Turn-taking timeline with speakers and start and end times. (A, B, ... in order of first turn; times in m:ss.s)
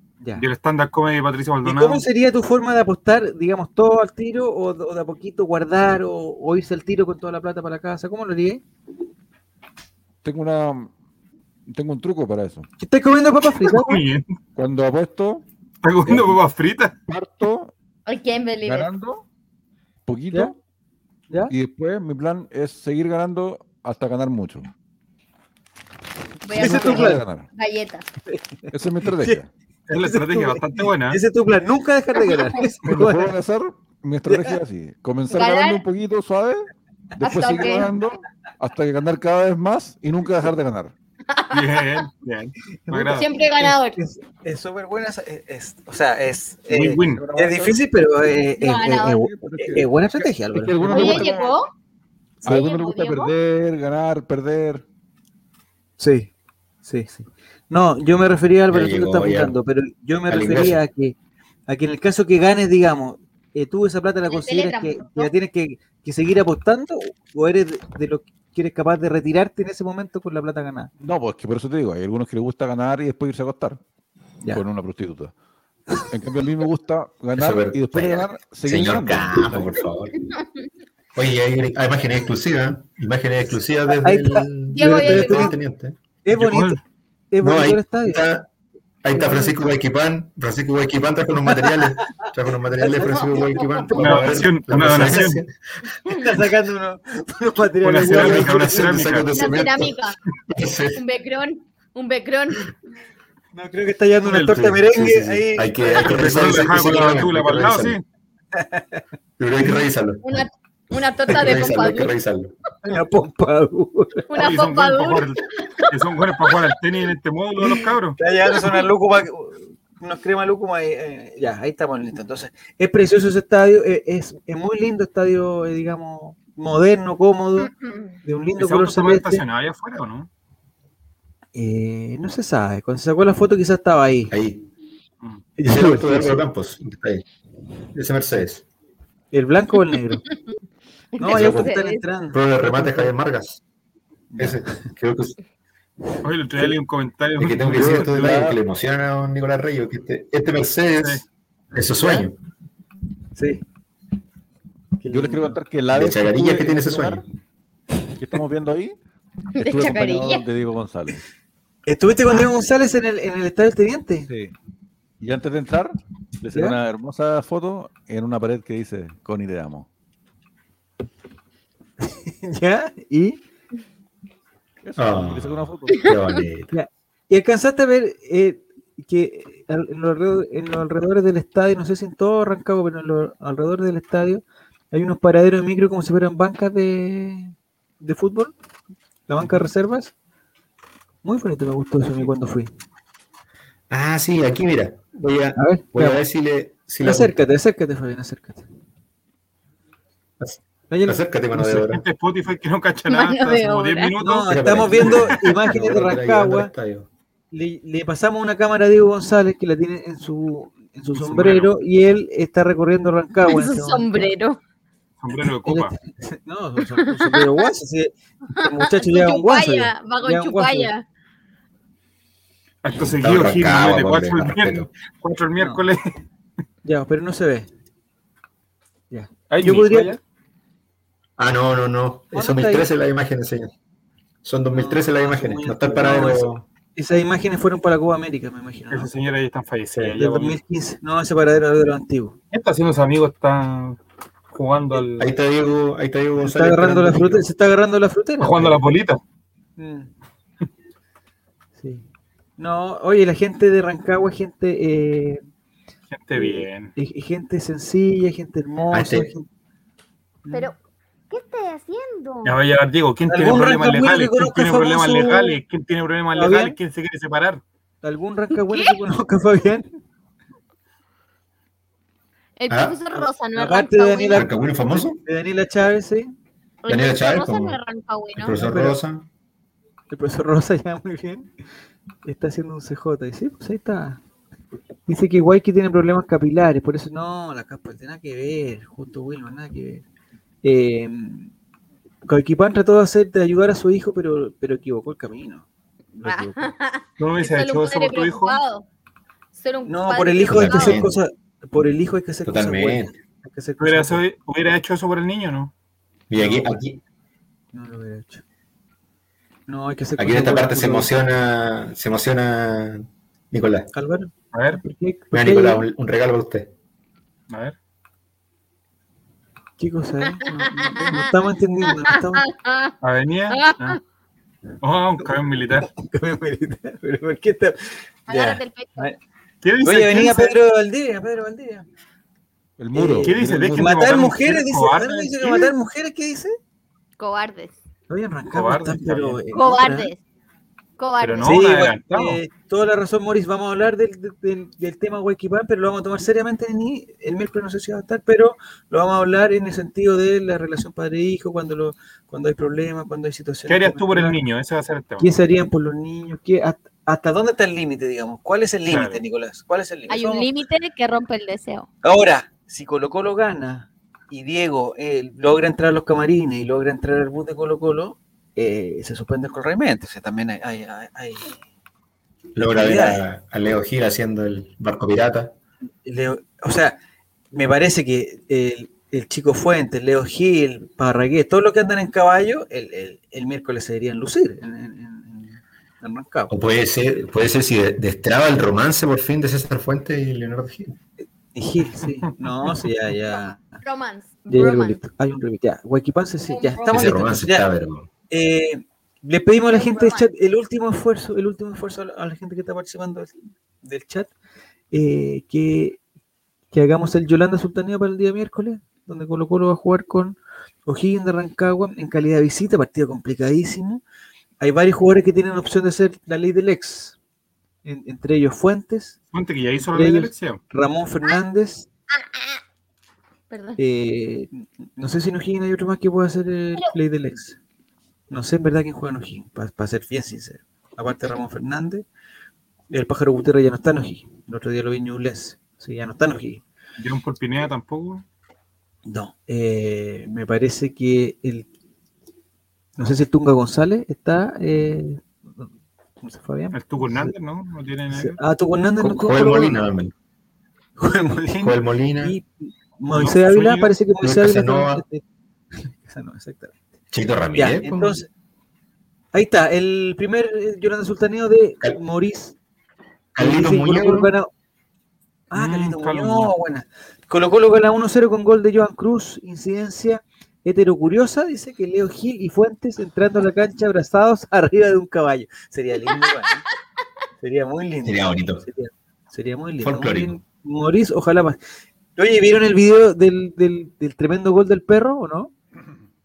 0:00.4-0:02.0 A
0:01.6-0:08.6 B
0:10.2-0:10.9 C
0:11.7-0:12.7 C
0:12.8-0:14.0 B
0:13.6-0:14.2 A
0:14.6-0:15.4 C
0:15.8-0:17.0 A
0:17.1-0:17.7 C
0:18.1-0:18.9 D
0:18.6-0:19.2 C
0:20.1-0:20.6 C
0:21.5-0:24.7 C
0:26.4-0:28.1 D
0:26.5-0:27.5 C
0:26.5-0:27.2 B
0:28.3-0:29.4 B
0:28.7-0:29.5 C
0:29.9-0:31.2 A
0:30.0-0:33.3 B
0:32.8-0:40.9 C
0:34.3-0:34.6 B
0:35.3-0:35.8 D
0:37.2-0:37.9 D
0:41.3-0:41.8 D
0:41.5-0:43.3 A
0:42.9-0:51.3 B
0:43.1-0:44.0 D
0:46.7-0:47.2 A
0:47.1-0:47.8 C
0:48.6-0:49.3 D
0:49.0-0:51.6 C
0:50.9-0:51.7 D
0:52.4-0:53.3 D
0:52.4-0:54.8 C
0:56.0-0:56.3 B
0:56.8-1:01.2 B
0:58.7-0:59.6 E
1:00.3-1:00.8 E
1:01.7-1:10.9 B
1:04.3-1:05.3 D
1:11.0-1:13.8 C
1:14.5-1:15.3 C
1:16.0-1:19.8 C
1:17.4-1:20.1 E
1:21.2-1:26.0 E
1:24.0-1:25.5 B
1:24.7-1:25.6 D
1:26.2-1:28.2 B
1:26.4-1:26.8 A
1:27.4-1:28.5 E
1:29.0-1:35.5 E
1:29.1-1:29.7 B
1:31.4-1:32.1 B
1:32.8-1:34.0 D
1:32.9-1:35.4 B
1:34.0-1:35.4 A
1:36.1-1:39.1 B
1:37.8-1:39.3 A
1:38.1-1:41.0 E
1:39.4-1:40.2 D
1:41.0-1:42.7 D
1:43.5-1:47.1 B
1:44.3-1:44.6 A
1:44.5-1:48.0 E
1:46.0-1:48.0 A
1:48.6-1:49.0 B
1:49.4-1:50.3 E
1:50.2-1:52.1 D
1:51.3-1:52.5 E
1:52.8-1:54.5 B
1:54.3-1:55.8 D
1:54.4-1:58.2 A
1:57.6-2:07.7 B
1:58.5-1:58.8 D
2:07.7-2:08.2 D
2:08.2-2:09.4 B
2:08.6-2:10.3 A
2:11.6-2:14.3 B
2:14.3-2:14.7 E
2:15.6-2:16.4 B
2:15.6-2:17.2 E
2:17.9-2:18.6 E
2:19.3-2:20.2 B
2:20.3-2:20.6 D
2:21.2-2:22.0 D
2:21.2-2:23.1 B
2:21.3-2:21.7 E
2:22.3-2:23.6 E
2:24.3-2:25.4 E
2:24.4-2:24.7 B
2:26.2-2:28.1 A
2:27.4-2:32.4 E
2:27.6-2:28.6 C
2:32.0-2:32.3 B
2:33.4-2:33.6 B
2:35.0-2:35.6 B
2:35.1-2:37.2 C
2:35.9-2:37.2 E
2:38.2-2:39.0 C
2:39.6-2:40.4 D
2:39.6-2:41.2 C
2:41.9-2:44.3 B
2:44.3-2:44.6 C
2:45.2-2:49.9 C
2:46.5-2:46.8 B
2:52.0-2:53.4 B
2:54.8-2:56.1 C
2:55.0-2:56.7 E
2:56.1-2:56.4 D
2:56.7-3:08.5 B
3:09.3-3:10.1 B
3:11.2-3:12.7 B
3:13.9-3:17.3 E
3:15.6-3:16.2 B
3:17.0-3:18.7 B
3:20.4-3:22.0 E
3:20.9-3:21.2 B
3:21.5-3:25.3 A
3:23.1-3:24.2 D
3:24.2-3:26.7 B
3:24.5-3:27.1 E
3:27.5-3:34.3 B
3:31.1-3:31.7 A
3:33.5-3:34.6 D
3:35.2-3:35.9 A
3:35.7-3:40.9 B
3:39.0-3:41.0 D
3:42.8-3:46.1 A
3:43.1-3:44.9 E
3:45.6-3:45.8 B
3:46.8-3:47.7 B
3:49.1-3:50.2 B
3:49.5-3:50.2 A
3:51.4-3:53.7 E
3:52.3-3:52.9 B
3:54.4-3:56.6 E
3:54.7-3:59.1 B
3:58.9-4:00.6 A
4:00.0-4:02.4 B
4:02.5-4:04.0 A
4:04.5-4:05.3 A
4:05.2-4:07.4 E
4:06.4-4:08.8 B
4:08.4-4:09.2 A
4:09.8-4:10.1 B
4:11.8-4:12.1 B
4:12.6-4:15.4 B
4:16.1-4:16.9 A
4:16.4-4:19.5 B
4:18.9-4:19.3 E
4:20.4-4:20.7 B
4:21.3-4:22.6 D
4:22.4-4:27.6 A
4:23.3-4:25.6 B
4:26.3-4:26.8 B
4:28.0-4:29.9 B
4:32.6-4:34.4 D
4:32.7-4:33.0 E
4:33.6-4:36.3 B
4:34.3-4:35.2 E
4:36.8-4:38.7 D
4:36.9-4:37.8 E
4:38.4-4:39.3 E
4:38.6-4:39.0 B
4:40.1-4:41.5 B
4:42.2-4:44.2 B
4:45.1-4:50.0 B
4:50.6-4:51.5 B
4:52.2-4:56.7 B
4:56.2-4:58.9 D
4:57.2-4:58.6 A
4:59.5-5:01.0 D
4:59.9-5:04.2 B
5:00.5-5:01.2 E
5:02.4-5:03.1 E
5:03.8-5:05.7 A
5:06.3-5:07.0 E
5:06.4-5:06.8 B
5:07.7-5:08.4 B
5:09.7-5:11.1 B
5:10.2-5:13.9 E
5:13.9-5:15.8 B
5:14.5-5:14.8 A
5:15.3-5:16.7 E
5:17.5-5:17.8 A
5:19.8-5:22.5 B
5:20.3-5:21.0 D
5:22.4-5:23.0 D
5:23.0-5:24.0 A
5:23.5-5:24.0 D
5:24.8-5:25.9 A
5:25.2-5:29.2 B
5:28.3-5:29.1 D
5:29.6-5:30.6 A
5:29.8-5:31.9 B
5:32.8-5:34.1 C
5:32.9-5:36.6 B
5:33.2-5:35.7 A
5:37.2-5:37.8 D
5:38.1-5:40.1 B
5:38.5-5:39.4 A
5:39.5-5:40.2 D
5:41.0-5:41.6 D
5:41.2-5:42.4 A
5:41.4-5:54.4 B
5:53.7-5:55.3 A
5:55.2-6:00.5 B
5:58.9-5:59.2 A
6:00.1-6:01.9 D
6:02.0-6:11.6 B
6:12.6-6:15.6 E
6:12.7-6:13.2 B
6:16.0-6:17.0 B
6:17.5-6:26.5 B
6:26.5-6:31.0 E
6:31.5-6:33.8 B
6:33.8-6:35.0 D
6:34.5-6:37.7 B
6:36.5-6:37.2 D
6:36.9-6:38.1 E
6:38.3-6:44.3 B
6:39.7-6:40.3 D
6:44.9-6:46.0 B
6:46.7-6:54.0 B
6:54.6-6:57.2 B
6:57.8-6:59.2 B
6:59.3-7:00.6 A
6:59.8-7:01.9 B
7:03.5-7:03.8 D
7:03.8-7:07.6 B
7:08.3-7:12.1 B
7:12.9-7:16.6 B
7:17.0-7:18.2 A
7:19.1-7:21.7 B
7:23.0-7:25.7 B
7:26.2-7:27.3 B
7:26.7-7:28.4 A
7:28.1-7:29.8 B
7:29.0-7:30.1 E
7:31.0-7:35.2 B
7:31.6-7:32.4 E
7:33.1-7:34.0 A
7:34.2-7:35.0 E
7:35.8-7:36.8 B
7:37.1-7:38.2 E
7:37.5-7:38.3 B
7:39.3-7:42.6 B
7:43.4-7:44.3 E
7:43.4-7:44.5 B
7:45.5-7:56.6 B
7:45.5-7:46.6 A
7:57.4-8:01.6 B
7:58.0-7:58.6 E
7:59.8-8:00.4 E
8:02.2-8:05.5 B